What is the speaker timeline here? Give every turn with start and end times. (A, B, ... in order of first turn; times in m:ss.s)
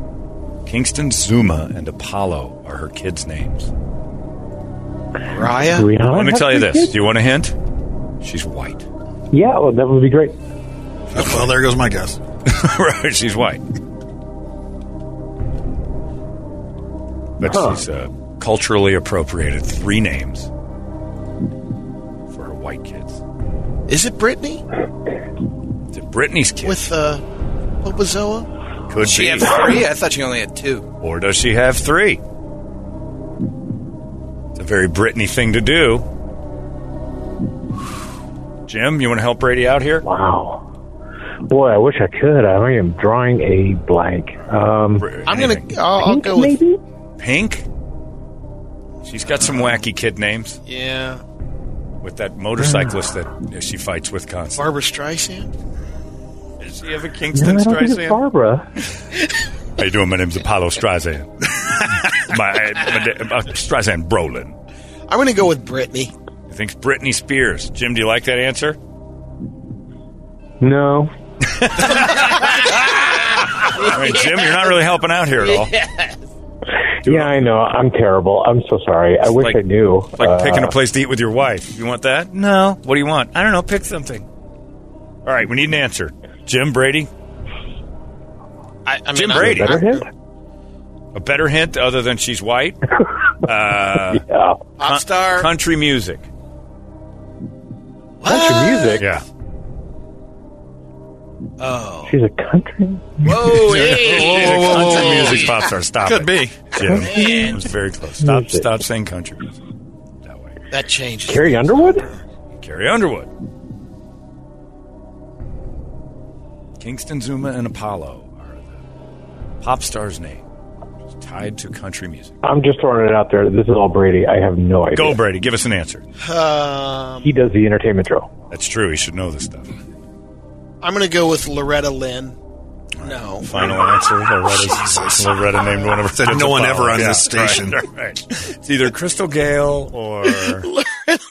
0:00.6-0:03.7 A
0:05.3-0:05.9 B
0:05.7-0:07.0 C
0:06.1-0:07.6 A
0:08.2-0:08.9 A
0:09.3-0:10.4 C
0:11.1-0:11.6 A
0:11.1-0:12.2 D
0:12.4-0:13.6 A
0:17.4-0:20.5 A
0:17.4-0:17.8 C
0:22.3-0:23.2 A
0:23.9-0:24.6 B
0:25.9-0:26.8 A
0:26.6-0:27.2 B
0:27.8-0:28.5 B
0:28.9-0:29.7 A
0:29.0-0:30.8 E
0:31.0-0:32.2 A
0:34.6-0:36.0 A
0:38.7-0:40.0 A
0:40.0-0:40.6 C
0:41.5-0:45.1 C
0:44.4-0:45.7 A
0:45.2-0:46.6 B
0:46.0-0:46.8 C
0:47.2-0:47.6 A
0:49.0-0:50.6 A
0:49.2-0:49.8 B
0:50.6-0:51.2 B
0:52.0-0:54.6 A
0:52.6-0:52.9 C
0:54.6-0:55.5 B
0:56.6-0:58.2 A
0:57.3-0:58.6 C
0:59.8-1:04.5 A
1:05.1-1:06.1 B
1:06.5-1:08.8 A
1:10.6-1:11.1 C
1:11.4-1:12.8 A
1:13.8-1:15.7 A
1:15.4-1:16.1 E
1:17.0-1:20.7 C
1:17.0-1:17.4 A
1:19.3-1:19.6 A
1:20.2-1:24.2 A
1:25.2-1:27.1 A
1:28.8-1:30.0 B
1:29.1-1:29.8 A
1:29.3-1:30.0 C
1:31.1-1:32.8 A
1:33.4-1:34.2 A
1:34.1-1:34.6 C
1:34.8-1:35.5 B
1:34.8-1:36.2 A
1:38.2-1:39.0 B
1:38.2-1:39.0 C
1:39.0-1:39.2 A
1:41.6-1:42.2 B
1:42.1-1:43.6 C
1:43.2-1:44.6 E
1:43.6-1:46.8 D
1:43.7-1:49.6 A
1:45.1-1:45.4 B
1:46.8-1:47.6 C
1:47.0-1:47.6 B
1:48.2-1:48.7 C
1:50.2-1:50.5 A
1:50.7-1:52.2 B
1:51.3-1:52.1 C
1:52.5-1:53.3 A
1:56.8-1:58.8 A
1:59.6-2:00.4 A
2:01.1-2:02.4 A
2:02.4-2:05.2 C
2:04.9-2:06.0 A
2:06.2-2:07.3 B
2:07.2-2:08.3 C
2:08.5-2:09.7 A
2:10.8-2:12.4 B
2:13.0-2:20.7 A
2:13.0-2:13.8 B
2:14.4-2:15.4 D
2:16.1-2:17.8 D
2:20.6-2:21.2 B